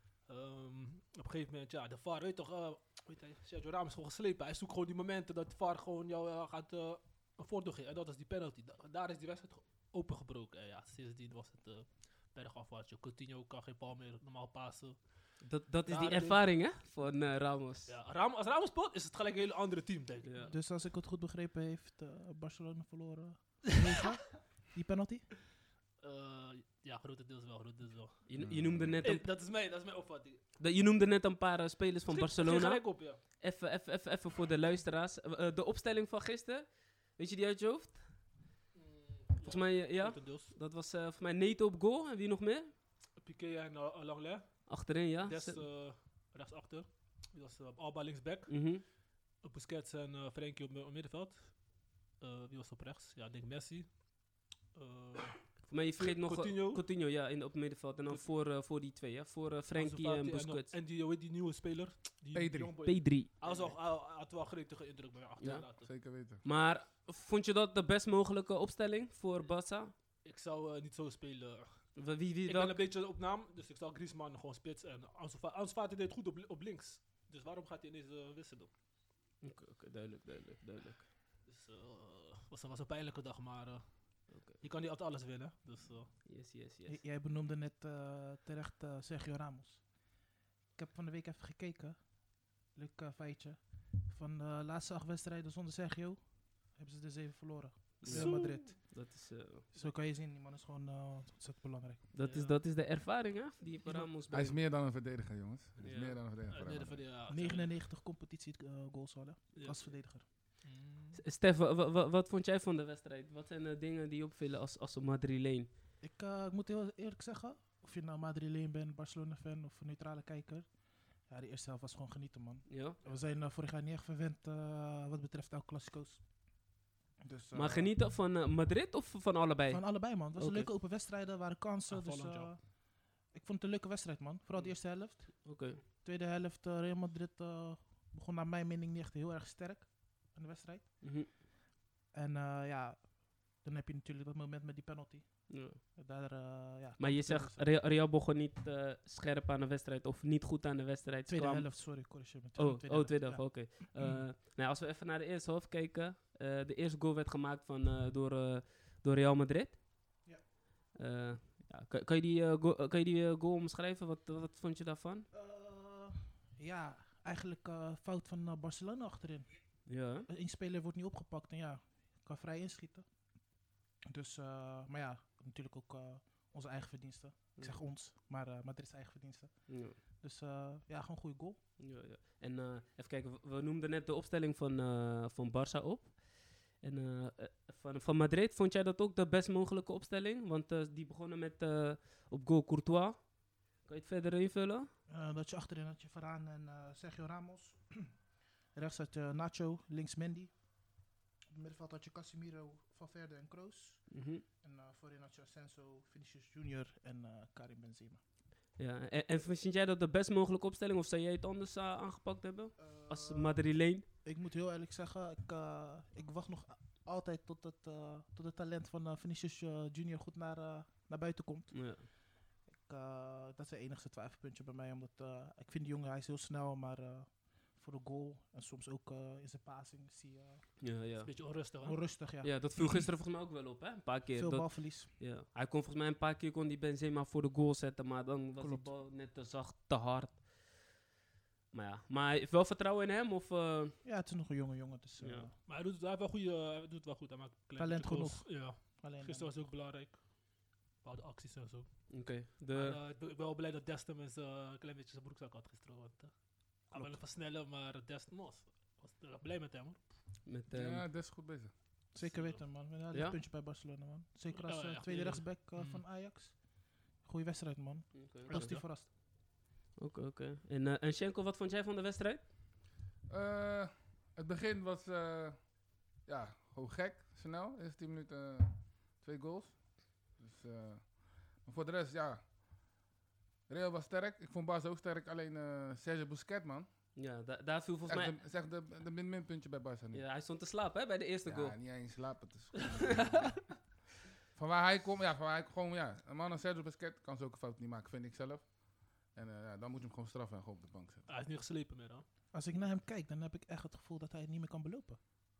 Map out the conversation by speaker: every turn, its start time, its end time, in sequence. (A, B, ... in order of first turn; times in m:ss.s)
0:00.2-0:15.3 A
0:15.4-0:17.9 B
0:15.8-0:16.4 A
0:17.8-0:20.5 A
0:20.2-0:20.5 B
0:20.5-0:25.4 C
0:26.0-0:28.2 A
0:28.3-0:29.3 B
0:28.4-0:29.0 D
0:29.0-0:30.4 A
0:30.6-0:38.0 B
0:32.1-0:33.2 A
0:38.7-0:40.5 A
0:39.4-0:42.7 B
0:43.2-0:56.8 A
0:44.7-0:45.6 B
0:48.5-0:48.8 B
0:55.7-1:00.7 B
0:59.7-1:05.9 A
1:02.3-1:02.8 D
1:02.8-1:03.7 B
1:05.4-1:05.7 B
1:05.8-1:06.4 D
1:06.4-1:09.9 B
1:10.2-1:18.7 A
1:12.0-1:12.8 B
1:19.4-1:21.1 B
1:21.5-1:26.2 A
1:24.3-1:24.6 B
1:26.2-1:27.0 B
1:26.9-1:30.2 C
1:30.7-1:39.0 C
1:38.0-1:39.7 B
1:39.7-1:42.1 C
1:42.1-1:44.6 B
1:42.3-1:42.6 A
1:44.3-1:47.0 D
1:45.8-1:46.2 B
1:46.5-1:47.7 A
1:47.3-1:50.3 C
1:49.6-1:51.2 A
1:51.2-1:55.7 B
1:56.0-2:06.7 C
2:02.7-2:03.0 B
2:07.2-2:07.9 C
2:07.5-2:10.7 B
2:09.7-2:21.4 C
2:11.9-2:12.5 A
2:14.6-2:15.8 B
2:21.0-2:21.3 B
2:22.1-2:27.6 C
2:25.5-2:25.8 B
2:27.0-2:39.8 B
2:31.3-2:34.2 C
2:41.0-2:45.3 B
2:45.3-2:53.0 C
2:49.8-2:50.3 B
2:54.1-3:01.6 C
2:59.7-3:00.0 B
3:01.8-3:14.9 B
3:15.1-3:28.2 C
3:24.1-3:24.4 B
3:28.8-3:34.0 B
3:32.8-3:33.6 C
3:34.2-3:50.8 C
3:41.7-3:42.1 B
3:50.8-3:51.4 B
3:51.2-3:52.1 A
3:51.8-3:53.1 C
3:52.4-4:00.5 B
3:54.3-3:55.1 C
3:58.6-3:58.9 C
4:01.7-4:04.0 B
4:04.0-4:05.5 C
4:05.2-4:05.5 B
4:05.6-4:16.3 A
4:07.8-4:09.5 C
4:12.1-4:13.0 B
4:16.9-4:20.0 A
4:16.9-4:17.2 C
4:20.4-4:21.0 B
4:20.7-4:21.7 D
4:22.1-4:29.1 C
4:22.2-4:22.6 A
4:23.1-4:23.4 B
4:24.5-4:26.0 A
4:28.1-4:29.1 B
4:28.5-4:28.8 A
4:30.0-4:32.5 B
4:33.2-4:42.4 D
4:43.7-4:46.9 D
4:47.2-4:48.4 B
4:48.0-4:50.2 D
4:50.1-4:51.8 B
4:51.5-4:53.9 D
4:54.5-5:01.3 D
5:01.3-5:02.2 A
5:02.5-5:05.2 C